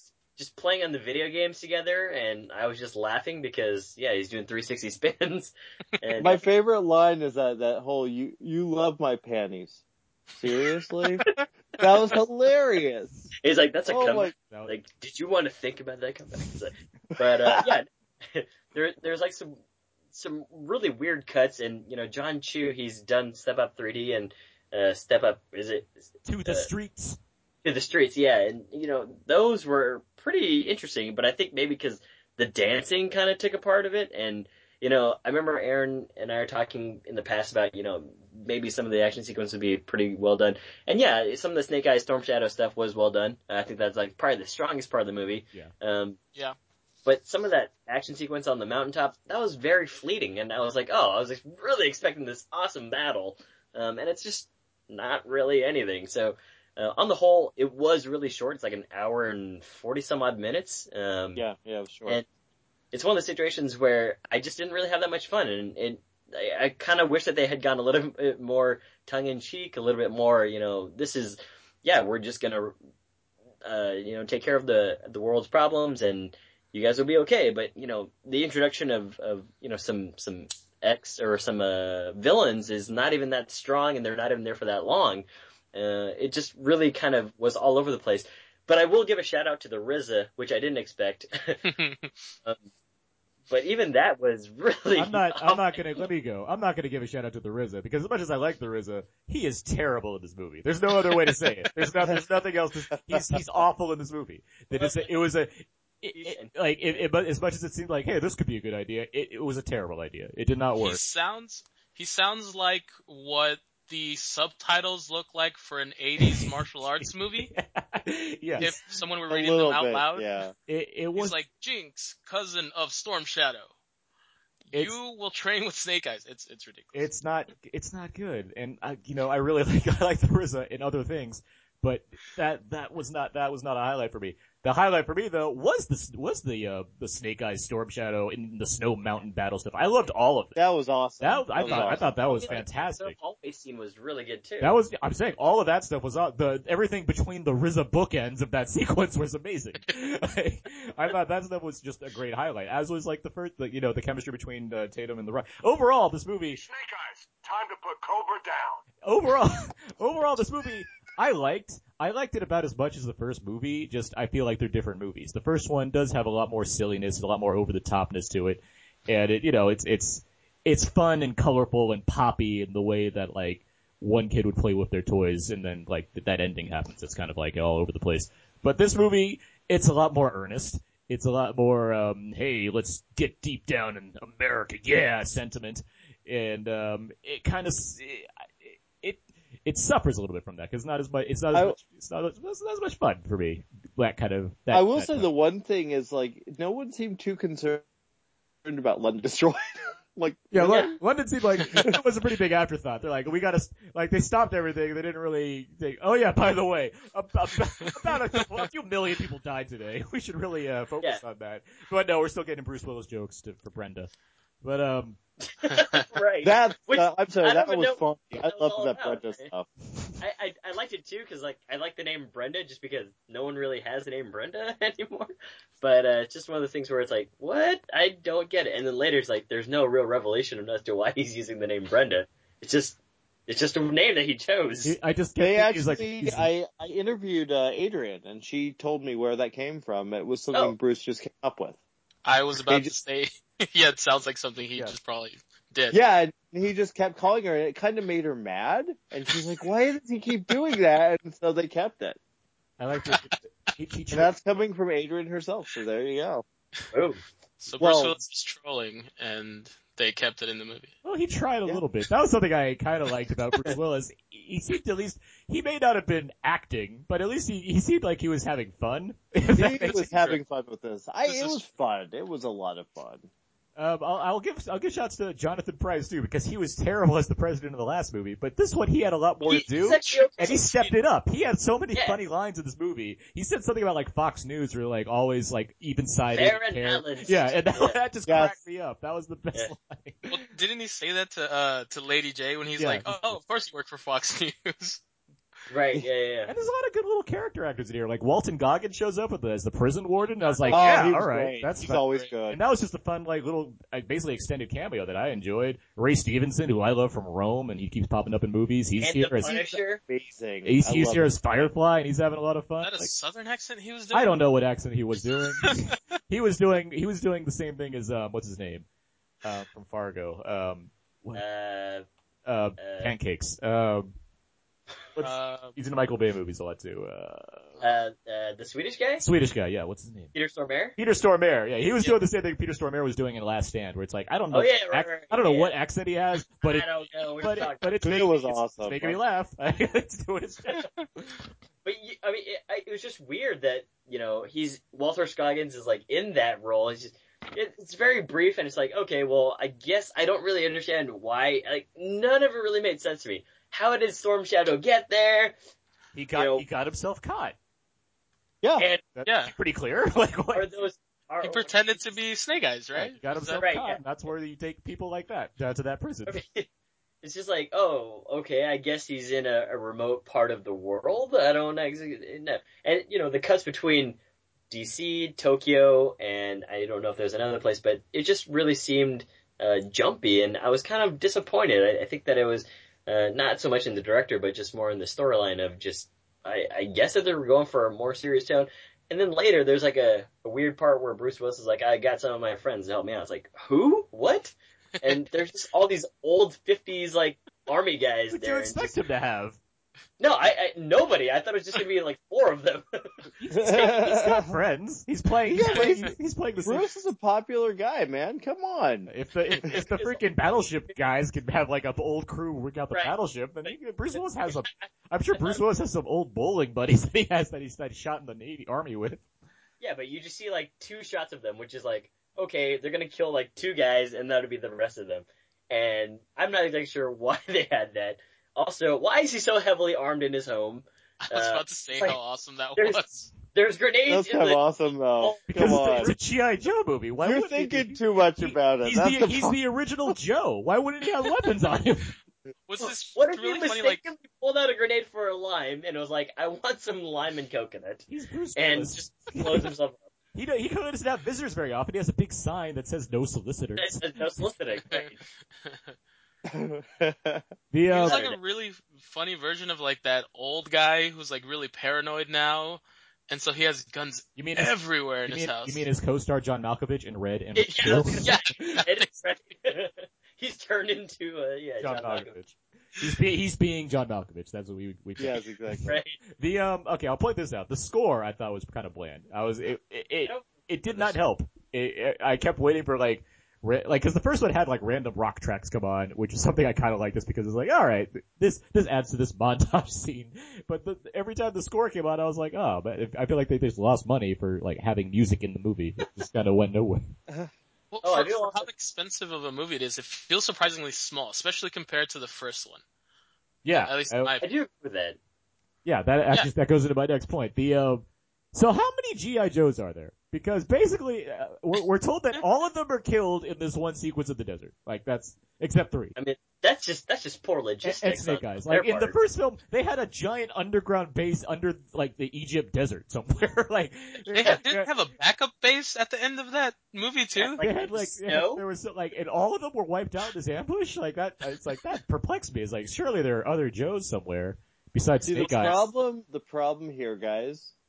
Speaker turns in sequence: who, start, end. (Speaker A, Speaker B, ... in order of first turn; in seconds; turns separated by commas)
Speaker A: 0.3-6.4, Speaker B: 6.2-9.8, Speaker B: 10.4-11.2, Speaker B: 11.8-13.3, Speaker A: 13.4-19.6, Speaker B: 13.9-14.3, Speaker B: 17.2-17.7, Speaker A: 20.1-25.9, Speaker C: 26.2-27.2, Speaker A: 26.4-26.7, Speaker A: 27.6-46.2, Speaker A: 47.0-61.4, Speaker B: 61.4-62.2, Speaker A: 62.9-72.8, Speaker A: 73.6-91.6, Speaker D: 91.7-92.1, Speaker A: 93.5-95.8, Speaker C: 94.9-111.0, Speaker B: 103.1-103.4, Speaker A: 104.7-105.1, Speaker A: 106.1-106.5, Speaker D: 110.8-117.5, Speaker C: 116.2-116.5, Speaker C: 117.0-118.8, Speaker D: 118.6-120.3, Speaker B: 119.3-120.5, Speaker C: 120.7-121.4, Speaker D: 121.1-123.7, Speaker D: 124.7-127.1, Speaker C: 126.9-140.6, Speaker B: 140.6-142.6, Speaker C: 141.2-143.1, Speaker A: 141.6-144.8, Speaker C: 144.6-156.6, Speaker E: 156.5-158.8, Speaker C: 159.0-195.3, Speaker B: 191.5-191.8, Speaker B: 194.7-197.8, Speaker B: 198.6-200.6, Speaker C: 200.5-214.1, Speaker A: 200.6-200.9, Speaker C: 214.6-215.2, Speaker A: 215.5-219.5, Speaker B: 216.4-219.7, Speaker A: 220.2-234.9, Speaker C: 234.8-236.5, Speaker B: 235.4-241.8, Speaker D: 242.2-246.0, Speaker B: 242.7-242.9, Speaker B: 245.9-252.2, Speaker C: 252.8-254.3, Speaker B: 254.1-256.4, Speaker A: 256.9-257.2, Speaker D: 257.6-260.9, Speaker B: 257.8-258.2, Speaker C: 261.0-270.3, Speaker B: 269.5-273.3, Speaker D: 271.2-271.6, Speaker C: 273.8-290.3, Speaker A: 279.4-280.9, Speaker A: 281.9-282.2, Speaker A: 286.3-288.0, Speaker B: 288.2-288.6, Speaker D: 290.3-295.0, Speaker C: 292.8-293.4, Speaker A: 295.7-296.5, Speaker C: 296.5-309.6, Speaker D: 300.2-301.1, Speaker B: 300.7-302.6, Speaker D: 301.9-302.3, Speaker A: 309.0-310.0, Speaker B: 309.4-311.4, Speaker C: 310.6-313.1, Speaker D: 312.8-314.4, Speaker C: 314.1-318.8, Speaker D: 315.6-316.0, Speaker C: 319.4-321.4, Speaker A: 321.3-322.0, Speaker C: 322.4-324.1, Speaker A: 322.8-323.1, Speaker C: 325.1-327.8, Speaker D: 325.2-325.8, Speaker A: 327.8-329.2, Speaker C: 329.2-330.3, Speaker A: 330.3-331.0, Speaker C: 331.0-341.3, Speaker A: 334.5-335.7, Speaker A: 336.6-338.2, Speaker B: 338.0-339.2, Speaker A: 341.8-355.6, Speaker C: 356.1-357.6, Speaker A: 356.3-356.6, Speaker B: 358.6-358.9, Speaker A: 358.8-359.0, Speaker C: 359.1-360.7, Speaker D: 359.2-359.5, Speaker A: 360.5-362.1, Speaker D: 361.4-363.6, Speaker C: 362.9-366.4, Speaker A: 363.6-364.0, Speaker A: 366.3-366.6, Speaker A: 367.2-374.2, Speaker A: 374.7-398.9, Speaker C: 398.3-399.6, Speaker A: 400.2-403.1, Speaker C: 403.4-406.9, Speaker B: 403.5-404.5, Speaker A: 403.6-404.1, Speaker B: 405.5-409.1, Speaker C: 409.1-419.2, Speaker A: 409.7-410.2, Speaker A: 413.6-415.6, Speaker A: 419.8-432.2, Speaker D: 431.2-433.3, Speaker A: 432.8-436.1, Speaker B: 434.1-436.1, Speaker C: 435.5-442.1, Speaker B: 437.2-439.6, Speaker D: 442.7-444.0, Speaker A: 442.8-450.0, Speaker C: 448.1-449.7, Speaker C: 450.3-454.0, Speaker A: 453.8-455.2, Speaker D: 455.6-455.9, Speaker B: 456.5-457.4, Speaker C: 457.7-458.2, Speaker D: 457.9-465.9, Speaker A: 458.0-458.3, Speaker C: 464.4-468.8, Speaker A: 467.6-472.4, Speaker C: 471.8-497.1, Speaker B: 475.2-475.9, Speaker A: 475.9-476.2, Speaker A: 480.2-481.1, Speaker D: 497.9-502.8, Speaker A: 498.0-498.7, Speaker C: 503.6-504.4, Speaker D: 503.7-504.4, Speaker A: 504.4-505.2, Speaker C: 505.8-516.1, Speaker A: 516.1-519.2, Speaker C: 517.8-524.9, Speaker D: 524.3-527.6, Speaker A: 527.4-528.6, Speaker C: 527.6-535.8, Speaker B: 535.2-537.7